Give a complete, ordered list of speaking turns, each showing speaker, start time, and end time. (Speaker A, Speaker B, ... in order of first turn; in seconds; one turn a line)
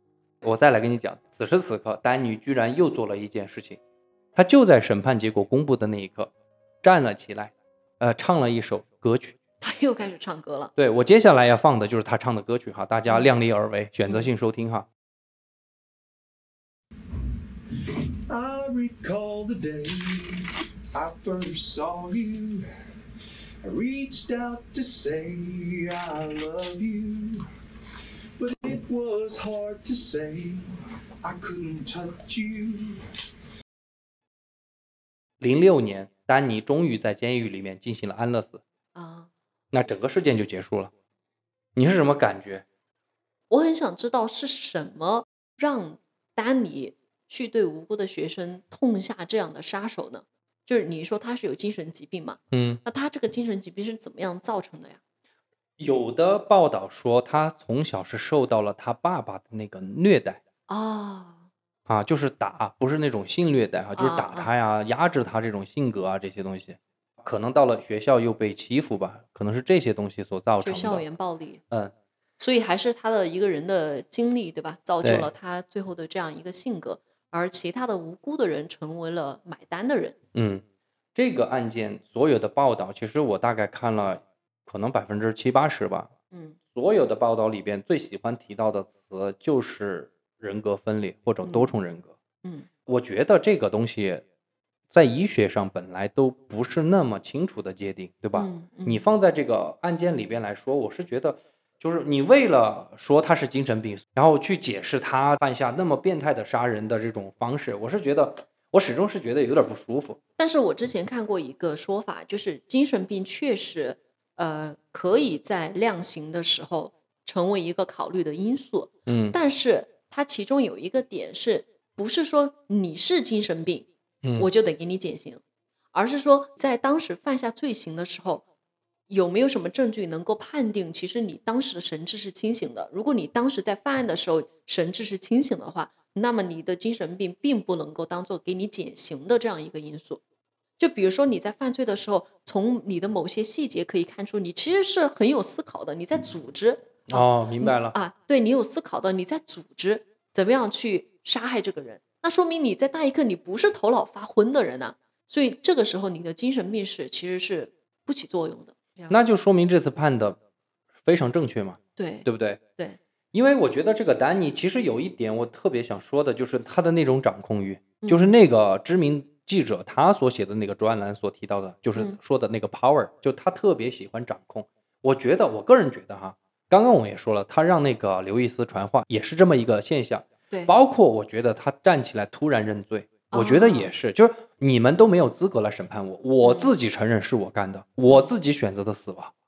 Speaker A: 0.4-3.8
Speaker A: 4.3-6.3
Speaker A: 6.8-9.3
Speaker B: 9.6-10.7
Speaker A: 10.8-14.9
Speaker B: 13.1-13.3
Speaker C: 17.8-22.6
Speaker C: 23.6-27.4
Speaker C: 28.4-30.6
Speaker C: 31.2-33.0
Speaker A: 35.4-38.6
Speaker B: 39.0-39.3
Speaker A: 39.7-40.9
Speaker A: 41.8-42.6
Speaker B: 43.5-55.0
Speaker A: 52.5-52.8
Speaker A: 55.8-60.4
Speaker B: 60.7-61.5
Speaker A: 61.9-71.0
Speaker B: 64.0-64.5
Speaker B: 70.6-71.6
Speaker B: 72.4-80.2
Speaker A: 75.0-75.3
Speaker A: 80.3-80.6
Speaker A: 81.2-86.1
Speaker B: 86.3-86.6
Speaker A: 86.7-92.2
Speaker B: 91.4-91.7
Speaker A: 92.9-94.2
Speaker A: 94.9-110.2
Speaker B: 98.3-99.1
Speaker B: 110.4-125.4
Speaker A: 119.1-119.4
Speaker A: 124.2-124.5
Speaker B: 125.9-128.4
Speaker B: 129.1-140.2
Speaker B: 140.8-159.2
Speaker A: 147.1-147.9
Speaker A: 159.1-160.4
Speaker A: 161.0-162.6
Speaker B: 162.0-163.0
Speaker A: 163.3-189.3
Speaker B: 168.0-168.3
Speaker B: 183.3-183.9
Speaker B: 186.4-186.7